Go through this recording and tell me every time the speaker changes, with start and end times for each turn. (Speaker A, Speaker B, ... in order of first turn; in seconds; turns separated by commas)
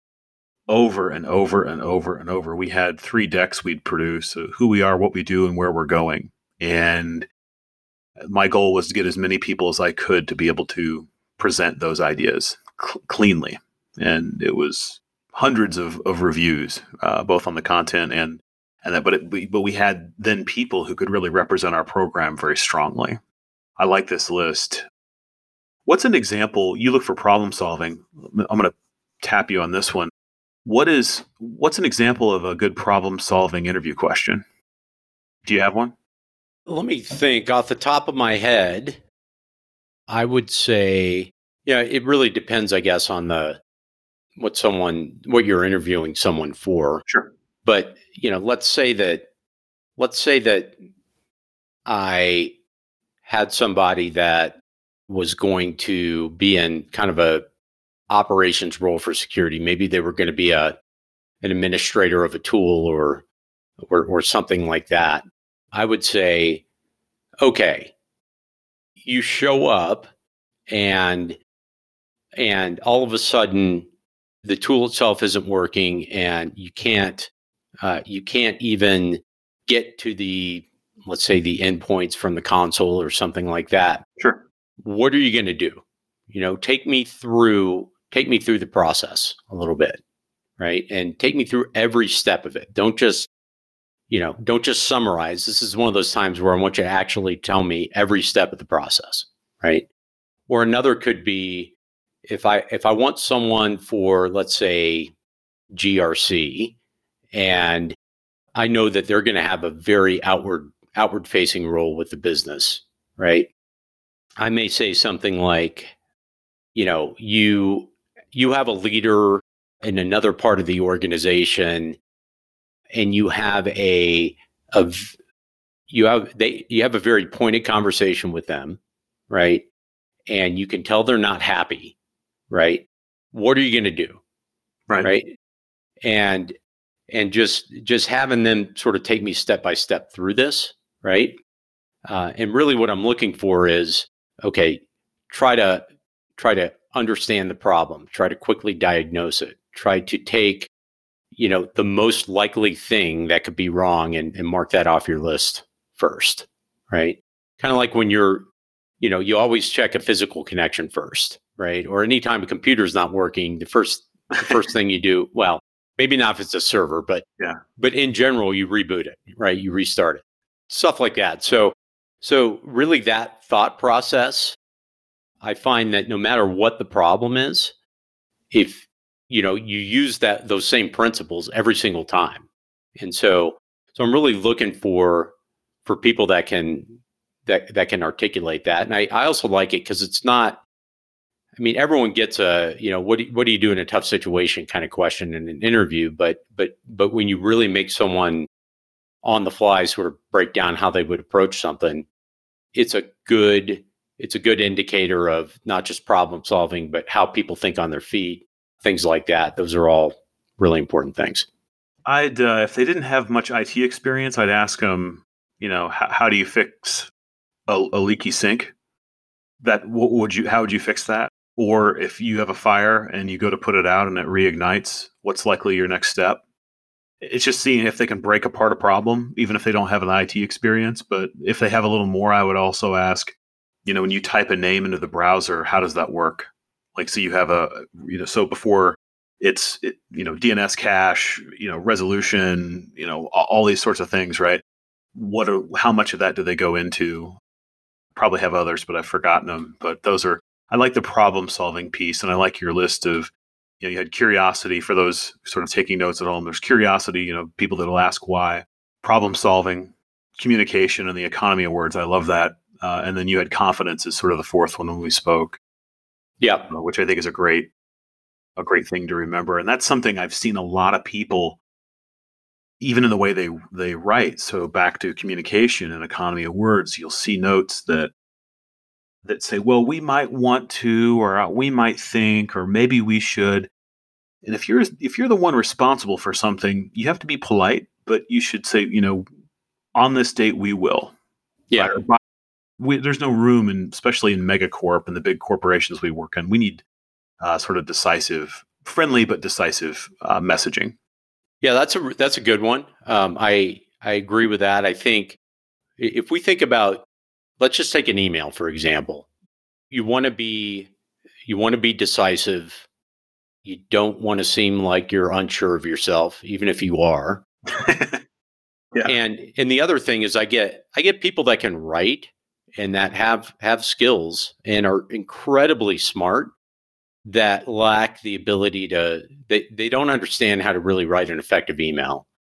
Speaker A: 0.7-7.3, Speaker A: 8.2-23.2, Speaker A: 23.8-24.8, Speaker A: 25.9-30.1, Speaker A: 30.6-34.4, Speaker A: 35.4-35.9, Speaker B: 36.7-39.0, Speaker B: 40.1-43.6, Speaker B: 44.4-47.0, Speaker A: 47.0-47.3, Speaker B: 47.6-49.2, Speaker B: 50.0-50.8, Speaker B: 51.9-52.5, Speaker B: 53.2-57.4, Speaker B: 58.1-60.8, Speaker B: 61.4-63.2, Speaker B: 63.9-66.6, Speaker B: 67.4-67.9, Speaker B: 69.0-70.1, Speaker B: 70.7-71.4, Speaker B: 72.4-73.9, Speaker B: 74.4-77.3, Speaker B: 77.8-84.0, Speaker A: 84.2-84.4, Speaker B: 84.8-90.0, Speaker B: 90.6-93.3, Speaker B: 94.1-99.9, Speaker B: 100.5-101.7, Speaker B: 102.3-105.1, Speaker B: 105.7-106.8, Speaker B: 107.3-108.0, Speaker B: 108.5-113.5, Speaker B: 114.4-115.9, Speaker B: 116.7-122.0, Speaker B: 122.9-125.1, Speaker B: 125.9-129.7, Speaker B: 130.3-131.9, Speaker B: 132.5-134.2, Speaker B: 135.0-135.4, Speaker B: 136.0-136.5, Speaker B: 137.1-141.4, Speaker B: 142.0-145.8, Speaker B: 146.4-150.7, Speaker B: 151.3-158.5, Speaker B: 159.0-167.2, Speaker B: 167.8-174.6, Speaker B: 175.4-177.7, Speaker B: 178.5-182.4, Speaker B: 183.0-185.3, Speaker B: 185.8-190.6, Speaker B: 191.6-198.5, Speaker B: 199.2-202.1, Speaker B: 202.7-211.5, Speaker A: 212.1-217.1, Speaker A: 217.7-218.7, Speaker A: 219.6-226.4, Speaker A: 227.2-244.6, Speaker A: 245.1-247.4, Speaker A: 248.2-265.6, Speaker B: 266.4-266.7, Speaker A: 266.7-267.7, Speaker A: 268.6-271.6, Speaker A: 272.8-278.1, Speaker A: 279.2-283.7, Speaker A: 284.4-289.2, Speaker A: 289.9-291.1, Speaker B: 291.7-292.0, Speaker A: 291.7-292.2, Speaker A: 292.8-296.8, Speaker A: 297.4-300.9, Speaker B: 301.6-305.4, Speaker B: 306.0-307.0, Speaker B: 307.6-309.3, Speaker B: 309.9-310.9, Speaker B: 311.4-312.8, Speaker B: 313.6-317.4, Speaker A: 317.7-318.2, Speaker B: 319.0-326.5, Speaker B: 327.2-332.2